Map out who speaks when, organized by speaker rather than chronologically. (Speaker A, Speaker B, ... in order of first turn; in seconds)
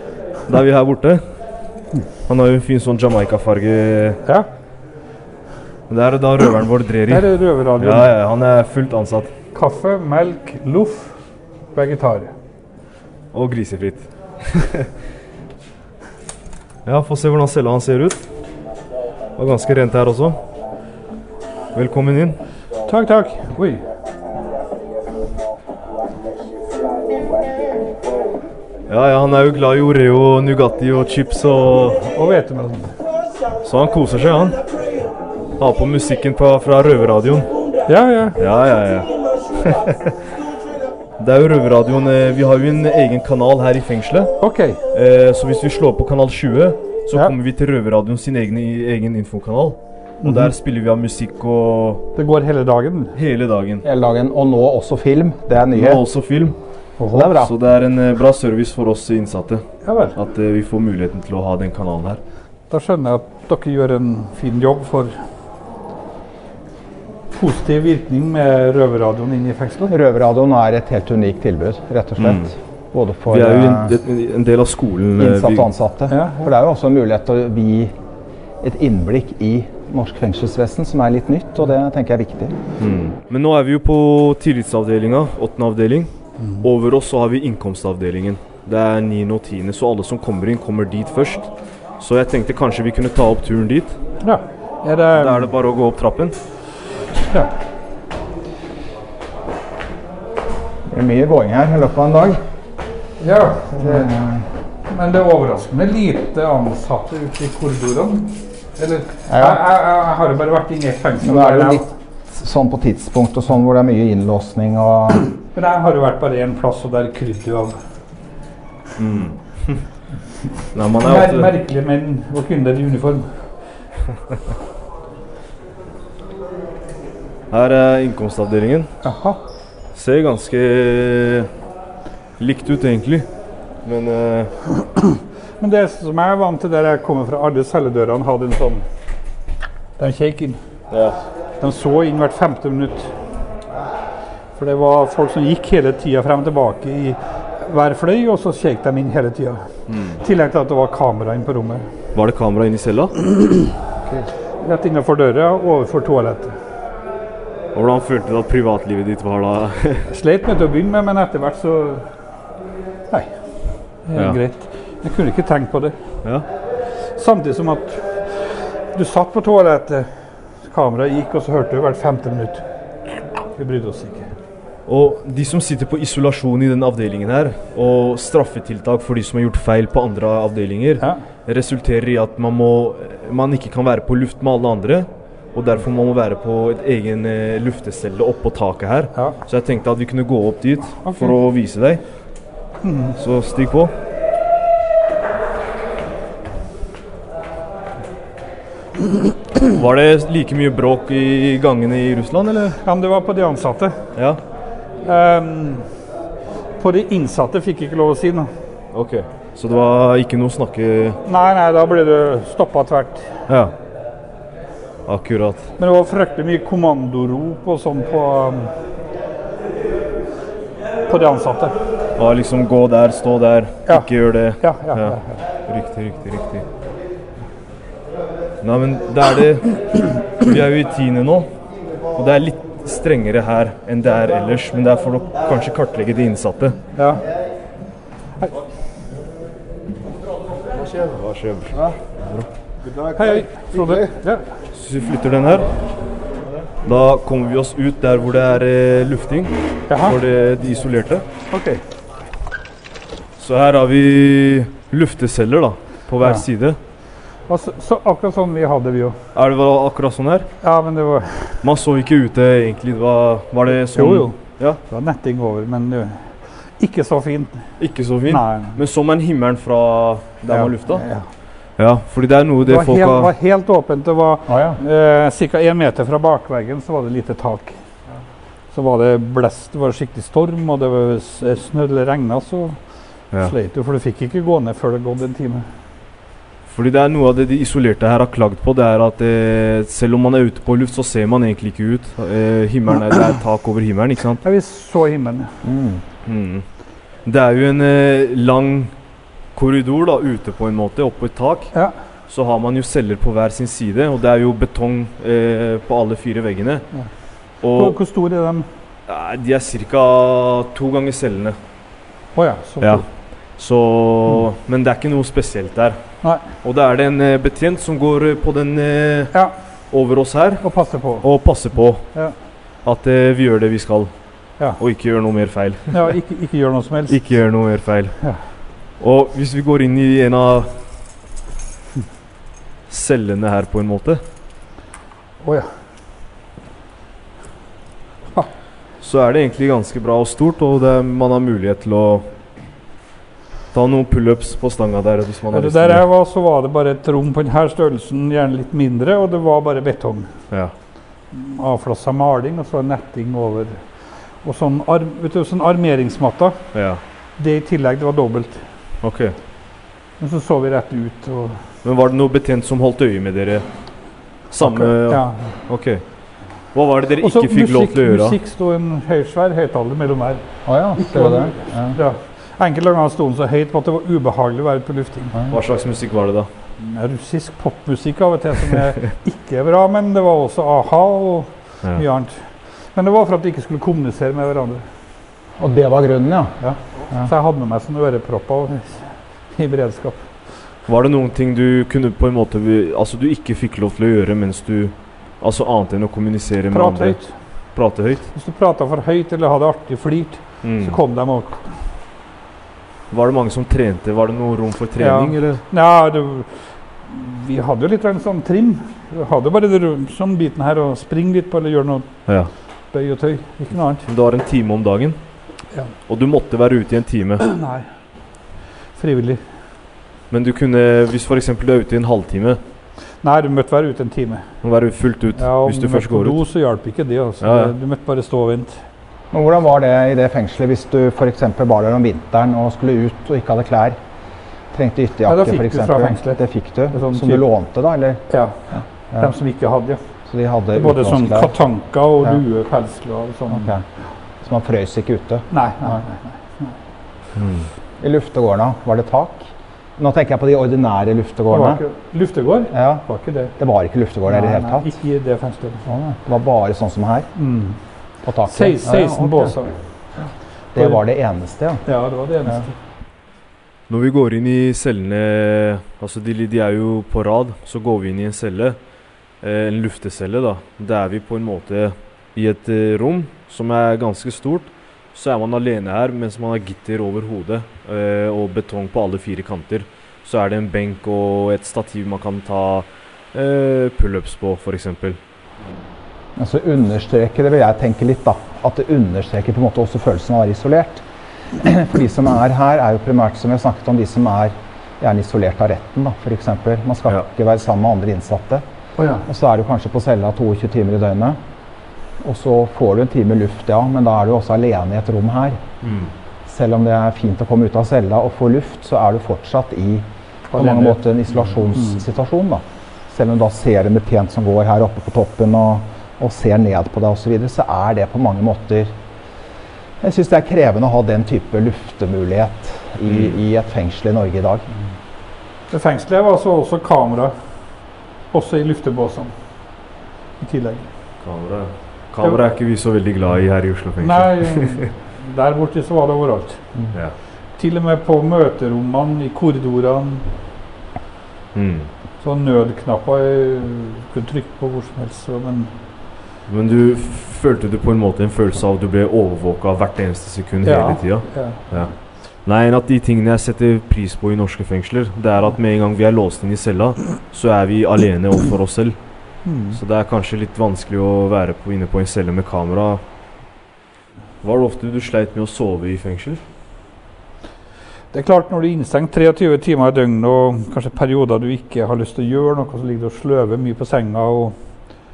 Speaker A: 0.5-1.2, 2.3-4.2, 5.9-9.3, 13.3-14.9, 16.9-18.3, 19.4-20.4, 21.7-22.4, 28.9-32.1, 33.6-34.6, 35.6-37.5, 38.4-40.2, 41.2-44.4, 44.9-52.1, 53.1-53.8, 55.7-56.5, 57.1-59.6, 60.1-62.2, 72.2-72.5, 73.3-75.7, 82.8-91.5, 92.0-94.0, 95.1-96.3, 119.0-119.8, 120.7-121.5, 127.5-128.9, 129.9-131.5, 132.4-133.3, 133.8-134.5, 140.9-141.2, 149.9-150.2, 152.1-153.2, 157.7-160.1, 174.9-192.0, 193.2-193.9, 199.6-202.8, 208.9-211.2, 213.5-213.7, 215.1-215.7, 222.2-226.6, 228.6-231.5, 232.1-236.8, 240.8-242.5, 244.7-245.7, 246.8-251.2, 253.4-256.8, 259.3-260.5, 261.6-264.8, 267.8-271.0, 271.8-273.3, 286.7-294.4, 296.2-296.6, 297.2-298.9, 299.5-301.7, 302.3-306.9, 307.6-308.0, 309.1-311.6, 313.6-316.0, 316.6-319.3, 319.9-320.6, 321.2-322.0, 322.8-324.1, 324.8-326.1, 327.1-328.1, 329.0-330.7, 332.9-334.2, 339.0-342.3, 343.7-346.0, 356.7-357.0, 359.0-359.4, 361.8-363.6, 364.5-366.0, 366.7-368.4, 375.5-376.5, 390.9-397.2, 397.7-398.3, 400.6-401.0, 403.1-405.6, 414.1-415.2, 416.1-417.4, 420.3-422.6, 424.6-426.4, 427.4-427.7, 447.4-447.7, 463.9-468.8, 469.4-485.2, 505.8-506.1, 523.1-523.4, 531.2-534.9, 541.5-541.9, 546.5-551.9, 552.5-559.0, 559.7-563.0, 564.4-566.4
Speaker B: 7.1-8.1, 9.5-11.2, 11.7-12.3, 22.9-23.8, 32.1-32.9, 37.9-38.4, 44.4-44.8, 50.2-50.5, 52.1-53.1, 57.0-57.3, 59.8-60.1, 62.7-65.2, 67.3-69.9, 76.1-76.5, 86.4-86.7, 94.2-95.5, 103.2-104.1, 104.9-111.9, 115.5-117.8, 121.0-123.4, 129.0-129.4, 134.8-138.8, 140.0-140.6, 141.6-143.1, 144.6-151.8, 153.3-153.7, 154.6-156.5, 160.1-162.0, 164.1-165.9, 167.1-170.1, 170.6-172.6, 173.6-174.3, 190.9-191.3, 192.8-193.2, 202.8-204.0, 205.0-205.9, 206.8-208.5, 211.2-213.3, 215.8-218.7, 221.1-221.8, 224.6-225.4, 236.9-237.2, 243.1-244.4, 249.9-250.2, 251.5-251.8, 257.5-259.2, 260.6-261.6, 263.8-267.7, 268.3-268.8, 270.5-271.3, 272.6-277.8, 278.7-282.8, 283.4-285.7, 294.4-295.6, 307.7-308.7, 312.4-313.0, 316.2-316.5, 320.6-321.3, 325.9-327.2, 335.4-335.7, 345.5-350.3, 351.3-353.8, 354.4-356.6, 357.4-358.6, 360.2-361.6, 364.6-365.5, 367.2-375.4, 376.8-384.8, 386.6-390.3, 396.7-397.4, 398.3-401.8, 405.0-412.1, 412.9-414.0, 417.4-417.9, 418.9-419.4, 423.2-424.4, 425.4-428.8, 435.3-437.4, 438.3-440.0, 440.8-443.7, 445.5-446.8, 451.5-453.5, 454.3-455.9, 457.4-457.8, 458.5-459.7, 461.8-462.7, 499.0-499.2, 510.5-511.0, 511.7-512.0, 525.7-527.3, 528.3-529.3, 530.4-530.9, 534.0-536.6, 537.6-540.2, 542.2-545.7, 550.6-551.6, 559.4-559.8, 568.1-574.5
Speaker C: 53.8-56.0, 57.1-57.5, 69.9-73.9, 75.2-77.9, 78.6-82.5, 100.9-102.4, 103.8-104.5, 109.3-109.6, 111.2-115.3, 274.5-274.8, 295.6-296.0, 370.6-372.0, 385.6-386.5, 429.3-434.0, 434.7-438.2, 438.7-439.3, 440.3-441.6, 443.5-443.9, 444.4-446.0, 448.0-451.8, 452.7-453.1, 453.6-454.9, 455.9-457.3, 458.2-459.6, 460.7-461.8, 486.4-491.0, 491.5-498.6, 499.2-501.4, 502.2-505.6, 506.4-518.9, 520.0-524.7